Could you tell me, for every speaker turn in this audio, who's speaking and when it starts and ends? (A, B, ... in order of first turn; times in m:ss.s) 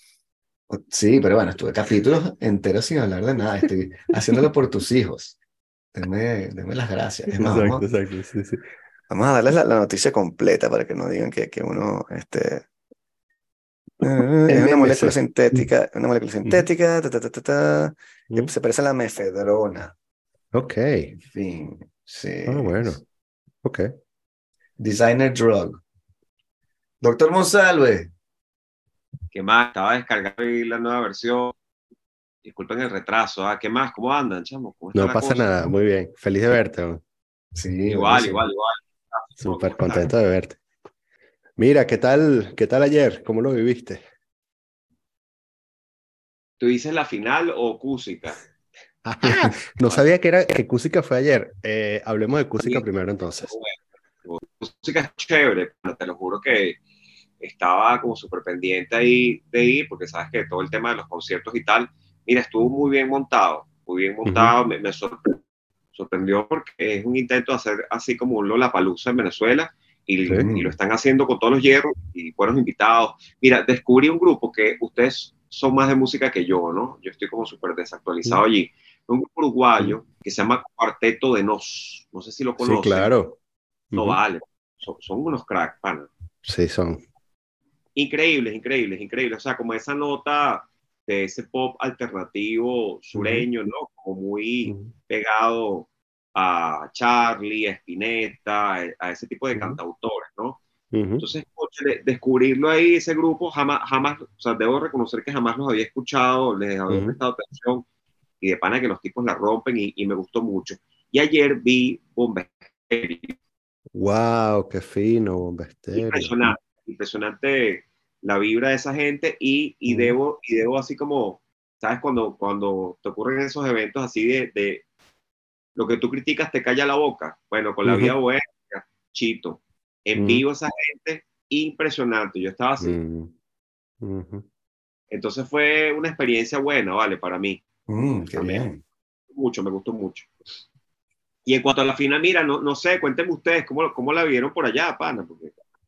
0:00.7-0:05.4 A
0:05.9-0:07.8 A
0:07.3-0:08.6 B
0:09.1-0:12.6 A
0:14.0-0:19.9 A
0:14.5-0:15.6 B
0:20.5-0:21.1 B
0:21.2-0:23.0 A
0:22.4-0:23.0 B
0:23.6-0:23.9 B
0:24.8-0:25.8 A
0:27.0-0:28.1 A
0:29.3-0:31.6 C
0:32.4-0:35.7 C
0:34.9-0:37.0 B
0:37.5-0:38.4 A
0:37.9-0:40.1 C
0:39.4-0:40.6 B
0:41.6-0:44.0 B
0:46.6-0:48.4 C
0:49.0-0:53.5 B
0:53.4-0:56.8 C
0:57.4-1:05.4 C
1:04.2-1:04.5 B
1:05.9-1:23.1 C
1:10.4-1:10.7 A
1:22.6-1:23.4 B
1:23.9-1:24.2 B
1:24.0-1:26.1 C
1:26.4-1:27.0 B
1:27.9-1:40.6 C
1:33.1-1:33.5 B
1:34.6-1:34.9 B
1:40.9-1:41.2 B
1:41.2-1:47.8 C
1:46.9-1:47.2 B
1:48.4-1:53.4 C
1:53.9-1:56.5 B
1:55.9-2:04.8 C
1:59.9-2:00.2 B
2:05.8-2:13.0 C
2:07.8-2:08.1 B
2:10.2-2:10.4 B
2:12.8-2:13.3 B
2:14.0-2:14.4 B
2:15.1-2:17.6 C
2:17.9-2:18.8 A
2:19.3-2:20.3 C
2:21.4-2:25.5 C